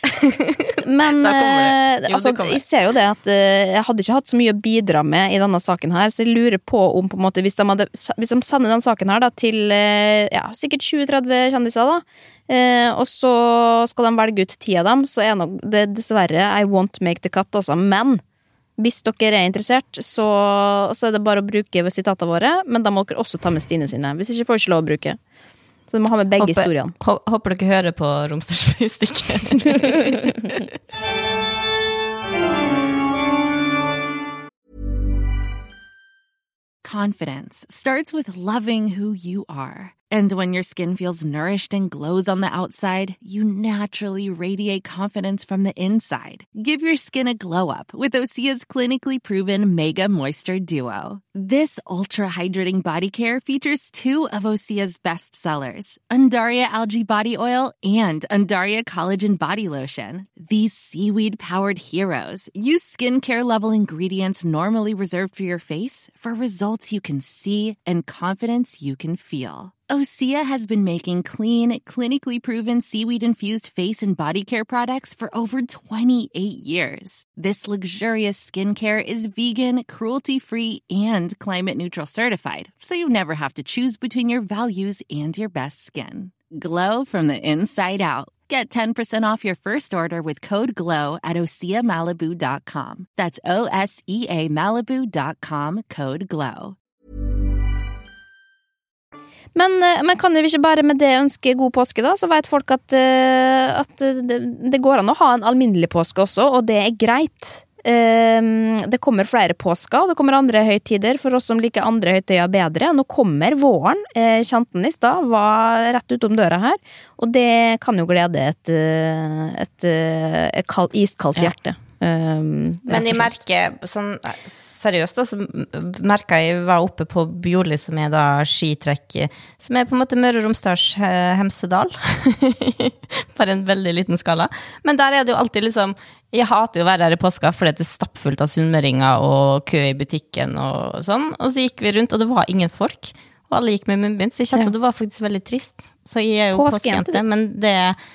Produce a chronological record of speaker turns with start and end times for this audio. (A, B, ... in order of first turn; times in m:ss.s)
0:00.1-0:02.6 A
0:00.8-0:18.2 B
0:18.8-0:25.2 B
0:25.9-0:26.9 B
0:26.4-0:30.6 A
0:36.8-1:36.8 C
1:39.5-2:03.3 B
2:02.9-2:28.0 A
2:26.5-2:27.2 B